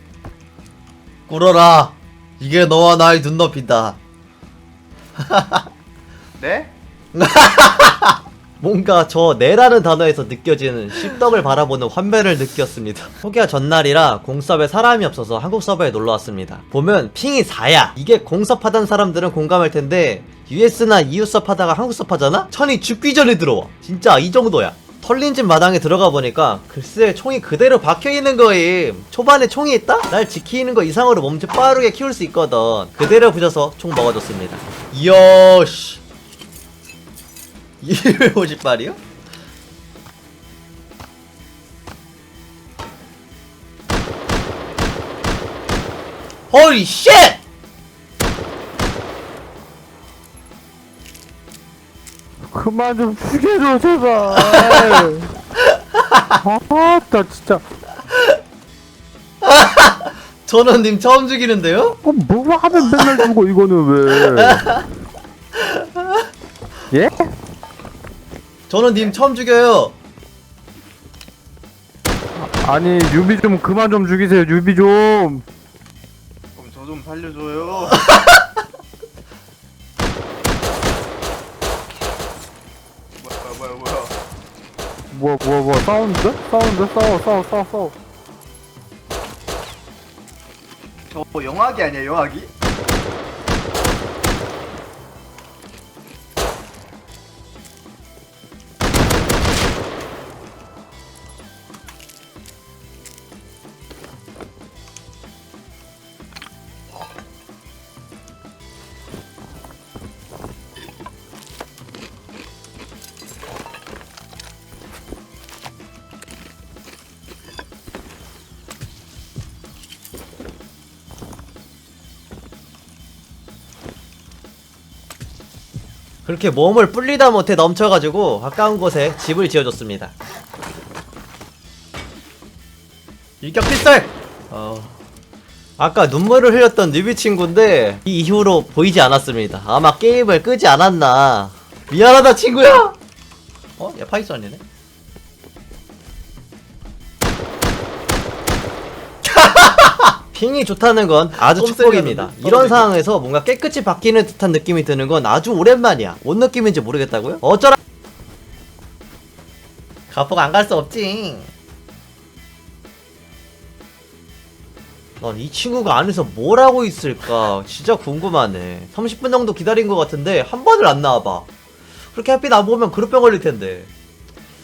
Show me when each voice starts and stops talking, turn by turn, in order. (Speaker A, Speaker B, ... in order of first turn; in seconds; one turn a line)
Speaker A: 1.3-4.0
Speaker A: 5.2-5.7
Speaker B: 6.4-6.7
Speaker A: 7.1-36.0
Speaker A: 37.8-39.0
Speaker A: 46.5-47.4
Speaker C: 52.5-55.3
Speaker A: 54.4-54.8
Speaker A: 55.6-56.4
Speaker C: 56.4-57.6
Speaker A: 59.4-62.0
Speaker C: 62.0-64.8
Speaker A: 62.8-63.2
Speaker A: 64.2-64.8
Speaker A: 65.5-66.2
Speaker C: 66.9-67.3
Speaker A: 68.7-69.9
Speaker C: 72.3-75.4
Speaker B: 76.5-78.0
Speaker A: 77.9-78.4
Speaker B: 83.2-84.1
Speaker C: 85.1-87.9
Speaker B: 91.1-92.5
Speaker A: 126.2-130.1
Speaker A: 133.4-135.0
Speaker A: 135.8-142.9
Speaker A: 143.8-144.6
Speaker A: 149.2-157.8
Speaker B: 151.9-152.8
Speaker A: 160.1-161.5
Speaker A: 165.2-171.5
Speaker A: 172.1-173.9